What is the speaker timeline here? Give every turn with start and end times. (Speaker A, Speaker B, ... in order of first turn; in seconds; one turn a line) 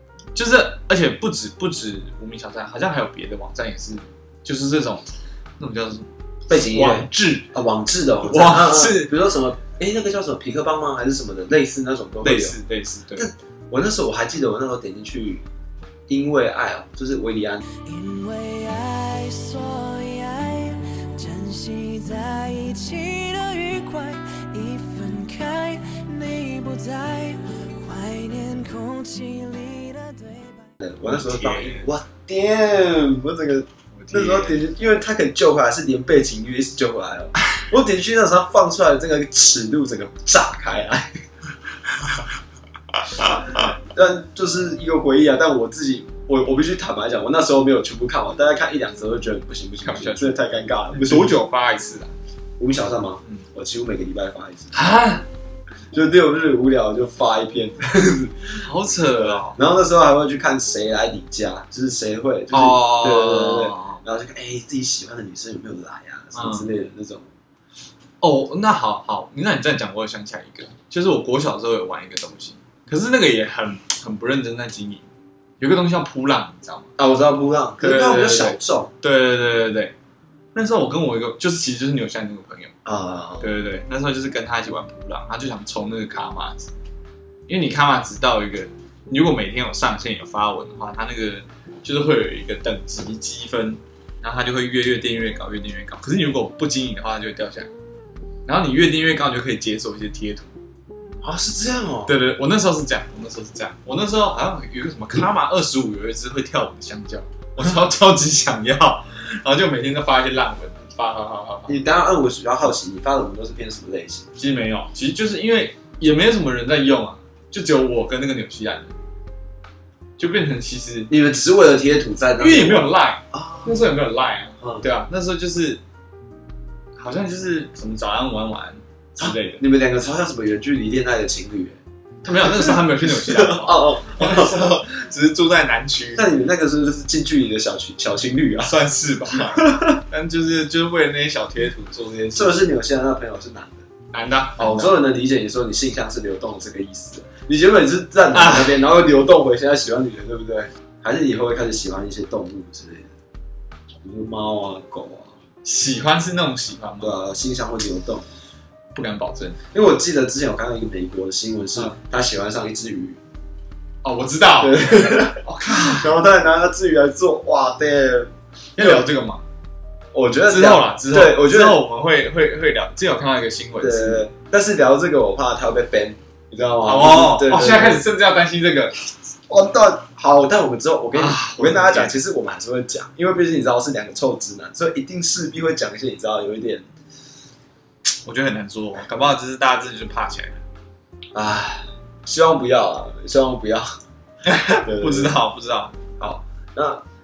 Speaker A: 0.3-5.1
Speaker A: 5.6-7.5
Speaker B: 6.5-12.6
Speaker A: 8.3-9.1
Speaker A: 12.2-13.3
Speaker B: 13.2-15.4
Speaker B: 16.1-17.7
Speaker C: 17.8-30.7
Speaker B: 30.8-41.2
Speaker A: 31.1-31.9
Speaker A: 33.9-34.7
Speaker B: 43.2-51.3
Speaker A: 49.8-52.1
Speaker B: 52.6-54.9
Speaker A: 54.7-55.3
Speaker B: 55.9-58.6
Speaker A: 58.6-59.6
Speaker B: 59.2-67.3
Speaker A: 62.5-64.0
Speaker A: 66.3-66.7
Speaker A: 68.2-75.1
Speaker A: 75.6-76.9
Speaker B: 77.0-78.9
Speaker A: 77.8-79.9
Speaker A: 80.5-82.7
Speaker B: 82.8-83.5
Speaker A: 83.4-86.7
Speaker A: 87.5-97.7
Speaker A: 98.5-100.5
Speaker B: 101.2-102.1
Speaker A: 102.1-111.8
Speaker B: 111.7-114.3
Speaker A: 114.4-118.9
Speaker A: 120.2-121.1
Speaker B: 121.1-123.8
Speaker A: 122.4-125.8
Speaker B: 124.6-124.9
Speaker A: 127.0-129.6
Speaker B: 129.2-134.7
Speaker A: 132.2-136.3
Speaker B: 136.2-138.7
Speaker A: 138.6-142.6
Speaker B: 139.5-139.9
Speaker B: 142.3-143.8
Speaker A: 144.1-145.0
Speaker B: 144.6-153.1
Speaker A: 148.3-148.8
Speaker B: 154.0-155.3
Speaker A: 155.6-157.2
Speaker B: 157.0-158.3
Speaker A: 158.9-159.6
Speaker B: 159.7-163.2
Speaker A: 164.0-166.1
Speaker B: 164.6-169.1
Speaker A: 168.8-169.4
Speaker B: 170.1-171.8
Speaker A: 170.5-174.2
Speaker B: 173.8-178.0
Speaker A: 176.8-178.9
Speaker B: 179.5-186.8
Speaker A: 181.1-182.2
Speaker A: 188.2-190.6
Speaker B: 191.3-194.0
Speaker A: 194.4-196.0
Speaker B: 194.7-195.4
Speaker B: 196.2-197.0